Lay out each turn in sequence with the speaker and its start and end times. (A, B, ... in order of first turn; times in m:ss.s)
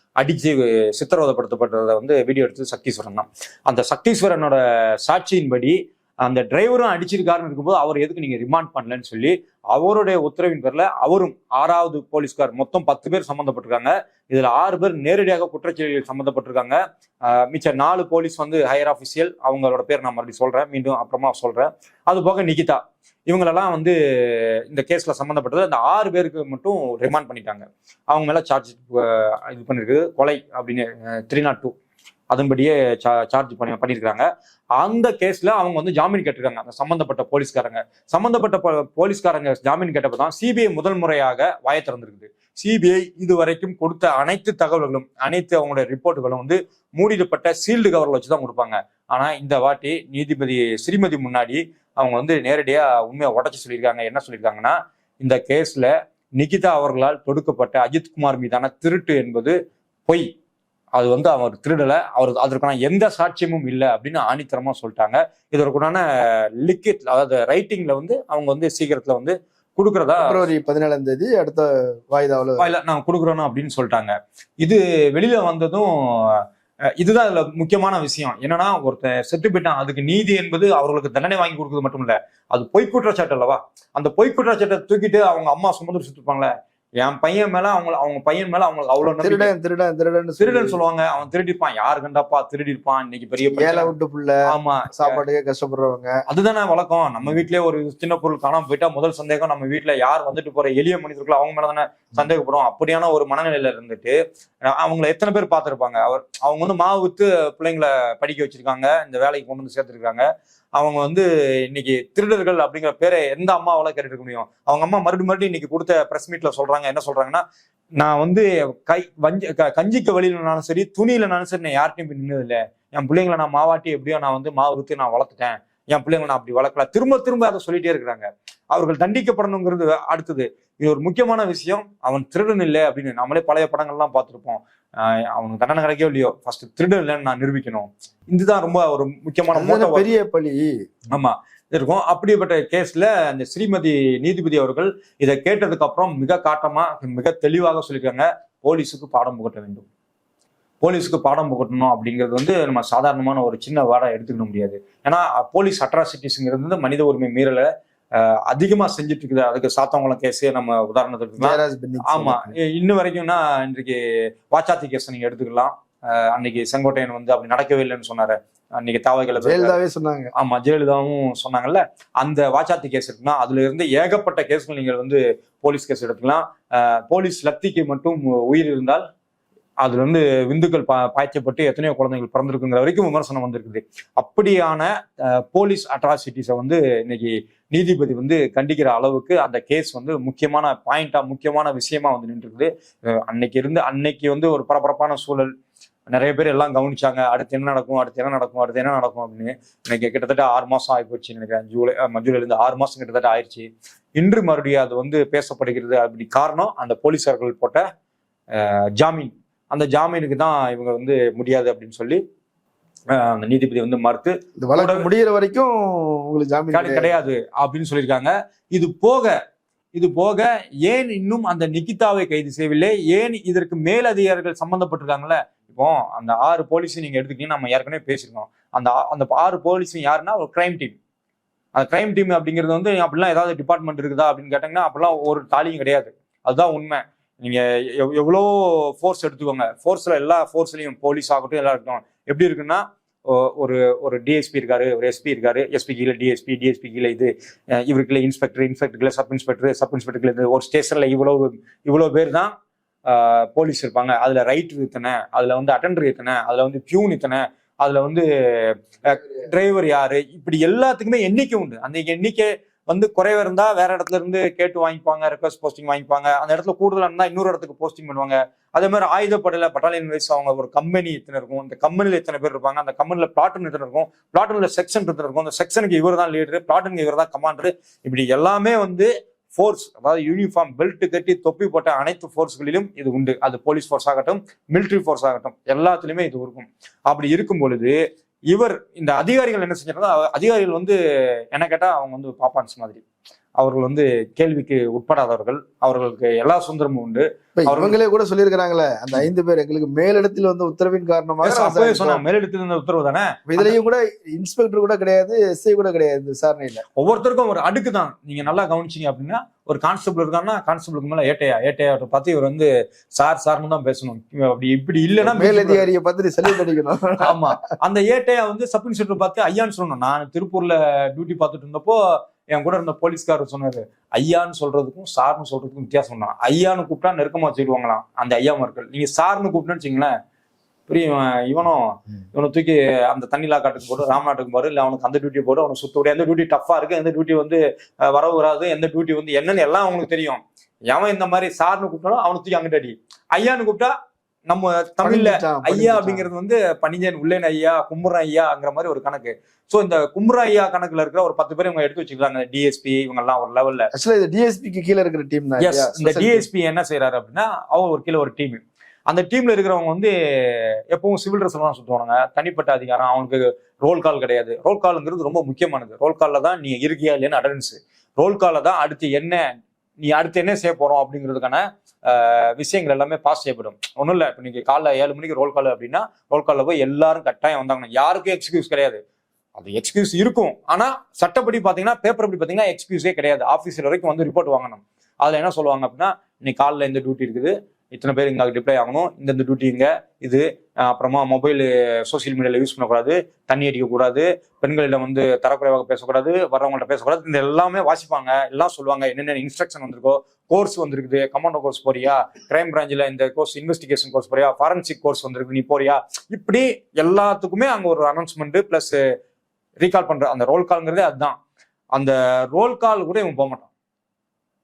0:00.2-0:31.8 A
0:32.3-0:34.2 A
0:34.8-0:59.6 A
1:01.0-1:06.0 A
1:06.6-1:10.4 A
1:10.2-1:12.7 B
1:12.6-1:16.4 A
1:17.0-1:29.5 A
1:29.2-1:30.8 B
1:30.4-1:33.9 A
1:33.6-1:36.2 B
1:34.5-1:35.2 A
1:36.3-1:44.2 A
1:44.7-1:57.4 A
1:58.0-2:20.1 A
2:19.5-2:20.7 B
2:21.1-2:29.8 A
2:30.8-2:44.0 A
2:41.4-2:42.6 B
2:44.5-2:49.8 A
2:49.4-2:50.3 B
2:50.4-2:59.0 A
2:59.8-3:15.5 A
3:16.1-3:27.9 A
3:28.5-3:32.2 A
3:33.2-3:35.1 A
3:34.6-3:37.1 B
3:36.7-3:39.3 A
3:39.9-3:51.0 A
3:51.8-4:12.5 A
4:13.1-4:48.0 A
4:48.5-4:51.0 A
4:51.5-4:53.0 A
4:53.6-4:58.0 A
4:57.6-5:02.2 B
5:01.4-5:03.8 A
5:03.5-5:06.8 B
5:07.0-5:15.8 A
5:15.2-5:17.5 B
5:17.2-5:30.1 A
5:30.9-5:43.9 A
5:44.5-5:53.9 A
5:45.0-5:46.3 B
5:53.9-5:56.5 B
5:55.6-6:09.4 A
6:10.0-6:19.0 A
6:19.6-6:49.0 A
6:49.8-6:51.4 A
6:52.0-6:53.7 A